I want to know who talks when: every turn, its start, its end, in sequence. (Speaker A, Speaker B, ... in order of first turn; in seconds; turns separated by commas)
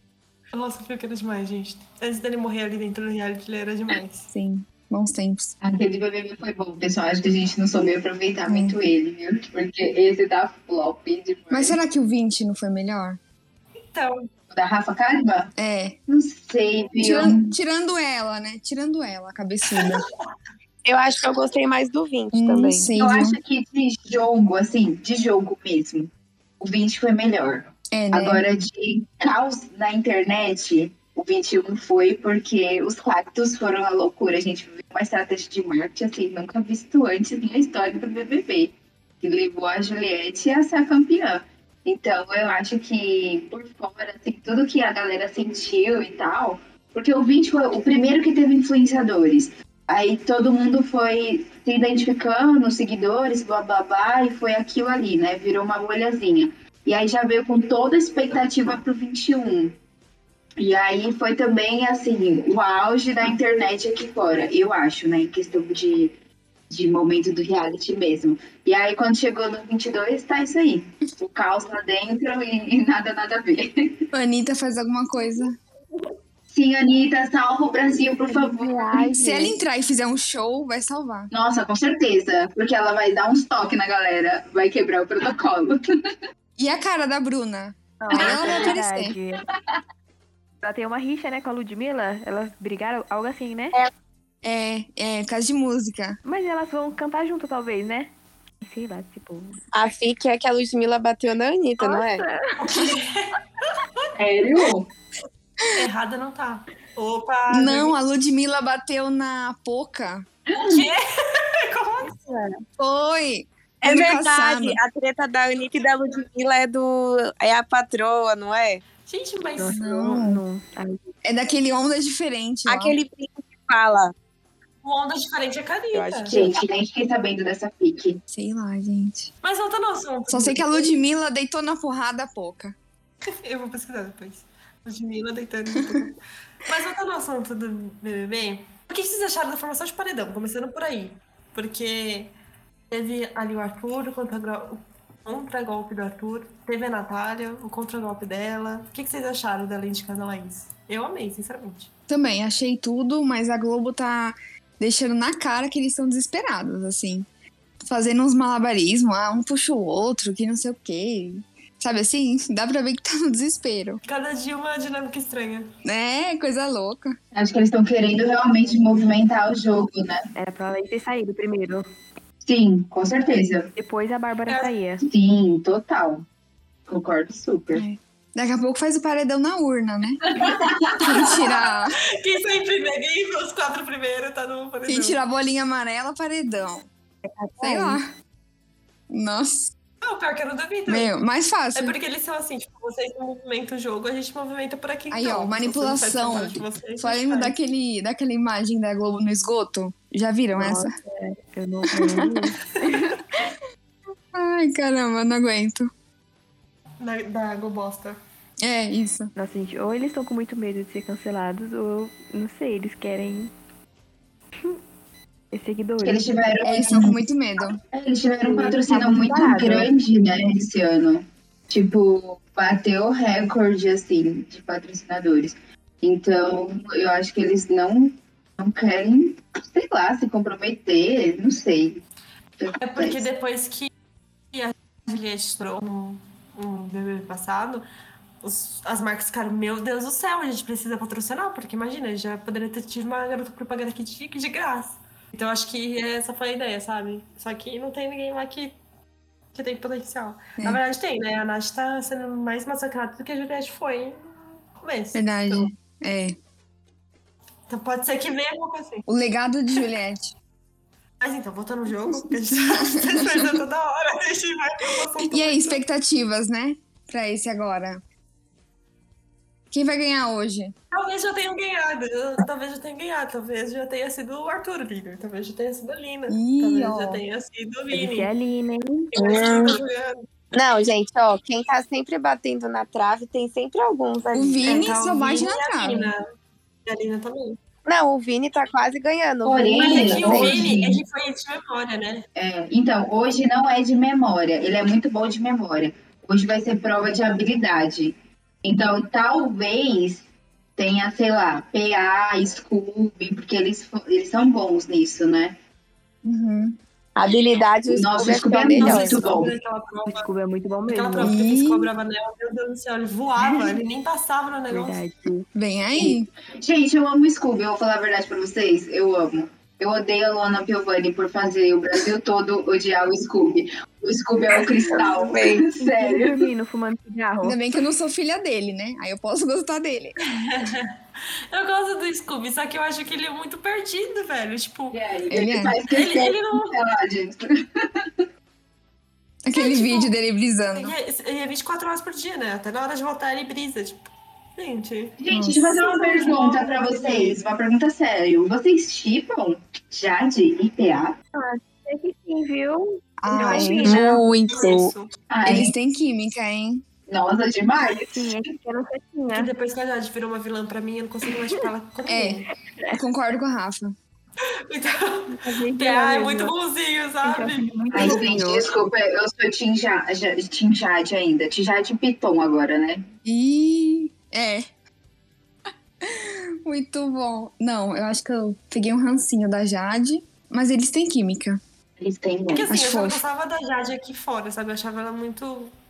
Speaker A: 0.5-4.3, Speaker B: 4.3-5.5, Speaker C: 5.6-11.8, Speaker B: 8.5-8.8, Speaker B: 11.5-13.2, Speaker A: 13.9-14.2, Speaker C: 14.5-15.5, Speaker B: 15.6-16.0, Speaker C: 16.1-17.5, Speaker B: 17.0-20.0, Speaker D: 20.8-22.9, Speaker B: 22.3-23.4, Speaker C: 22.9-59.7, Speaker B: 27.9-28.4, Speaker C: 60.6-66.1, Speaker C: 66.7-74.1, Speaker B: 74.1-75.6, Speaker C: 76.5-78.8, Speaker E: 78.6-79.4, Speaker B: 78.9-81.3, Speaker C: 81.3-85.8, Speaker B: 86.6-89.2, Speaker E: 88.0-89.4, Speaker C: 88.4-88.7, Speaker C: 89.5-89.8, Speaker E: 90.6-93.8, Speaker B: 94.4-96.2, Speaker E: 96.2-98.1, Speaker E: 98.6-99.6, Speaker D: 99.7-102.2, Speaker E: 101.8-102.6, Speaker A: 102.6-103.3, Speaker C: 104.2-104.9, Speaker A: 105.7-107.9, Speaker B: 107.5-110.2, Speaker C: 110.5-110.9, Speaker A: 110.6-112.2, Speaker B: 112.8-114.8, Speaker D: 113.8-118.8, Speaker A: 119.0-119.8, Speaker E: 119.6-121.1, Speaker B: 119.7-120.4, Speaker B: 121.2-123.0, Speaker D: 122.7-124.1, Speaker A: 124.8-126.3, Speaker D: 125.9-126.6, Speaker C: 126.3-128.2, Speaker B: 128.3-129.3, Speaker A: 129.4-130.9, Speaker B: 130.3-132.8, Speaker A: 133.4-142.3, Speaker A: 142.9-151.9, Speaker B: 152.1-157.3, Speaker B: 157.8-164.0, Speaker A: 164.0-165.7, Speaker B: 165.8-167.2, Speaker C: 167.3-170.2, Speaker E: 170.3-171.8, Speaker C: 172.4-173.7, Speaker E: 173.8-175.0, Speaker C: 175.0-176.2, Speaker C: 176.9-177.8, Speaker B: 177.7-180.3, Speaker C: 180.3-181.5, Speaker B: 181.0-182.0, Speaker A: 182.2-185.2, Speaker B: 184.9-186.9, Speaker E: 187.3-188.0, Speaker B: 187.6-188.0, Speaker B: 189.1-189.7, Speaker A: 190.0-191.1, Speaker B: 190.9-192.0, Speaker A: 191.7-197.5, Speaker B: 195.1-200.9, Speaker E: 200.6-202.5, Speaker B: 201.9-202.3, Speaker B: 204.3-205.9, Speaker A: 207.0-208.2, Speaker B: 208.6-209.3, Speaker E: 209.3-213.5, Speaker E: 215.5-216.3, Speaker C: 216.0-217.2, Speaker B: 216.6-217.8, Speaker C: 217.7-232.0, Speaker E: 218.4-219.9, Speaker C: 232.6-233.3, Speaker A: 232.8-233.9, Speaker A: 234.5-237.8, Speaker A: 238.4-248.8, Speaker A: 249.5-255.7, Speaker B: 255.1-256.4, Speaker A: 257.7-259.1, Speaker B: 259.1-260.3, Speaker A: 261.2-265.8, Speaker B: 262.0-263.6, Speaker B: 265.2-268.0, Speaker B: 269.7-270.7, Speaker A: 270.9-278.3, Speaker B: 276.3-277.2, Speaker E: 277.9-279.1, Speaker A: 279.1-280.2, Speaker D: 279.1-279.8, Speaker D: 280.5-284.9, Speaker B: 284.3-286.1, Speaker A: 284.6-286.2, Speaker A: 286.9-287.6, Speaker D: 287.9-290.8, Speaker C: 289.4-291.0, Speaker A: 289.8-292.2, Speaker C: 292.4-300.2, Speaker C: 300.8-305.6, Speaker B: 306.2-306.8, Speaker D: 307.1-309.2, Speaker C: 307.9-309.5, Speaker A: 308.8-310.3, Speaker E: 310.1-311.4, Speaker A: 310.9-315.0, Speaker B: 311.2-311.9, Speaker E: 313.4-313.7, Speaker E: 314.7-315.5, Speaker B: 315.5-316.3, Speaker C: 316.0-326.4, Speaker D: 324.9-325.7, Speaker E: 325.8-327.6, Speaker B: 327.4-330.1, Speaker A: 330.4-330.9, Speaker A: 331.5-335.0, Speaker C: 334.9-338.2, Speaker B: 335.3-335.8, Speaker A: 335.9-336.7, Speaker B: 339.4-340.9, Speaker A: 339.5-340.1, Speaker A: 340.7-345.2, Speaker C: 345.2-351.1, Speaker B: 345.3-345.7, Speaker A: 345.7-347.4, Speaker E: 351.3-354.0, Speaker B: 353.2-354.2, Speaker D: 353.8-354.9, Speaker A: 353.9-355.1, Speaker C: 355.3-355.7, Speaker B: 355.4-356.8, Speaker C: 357.1-358.3, Speaker E: 358.1-359.5, Speaker A: 359.3-362.5, Speaker B: 362.1-363.9, Speaker A: 364.7-368.2, Speaker E: 365.3-366.5, Speaker E: 367.2-368.7, Speaker C: 367.9-373.0, Speaker B: 373.2-374.6, Speaker B: 376.0-381.6, Speaker C: 382.0-382.7, Speaker A: 382.5-385.7, Speaker B: 382.6-383.2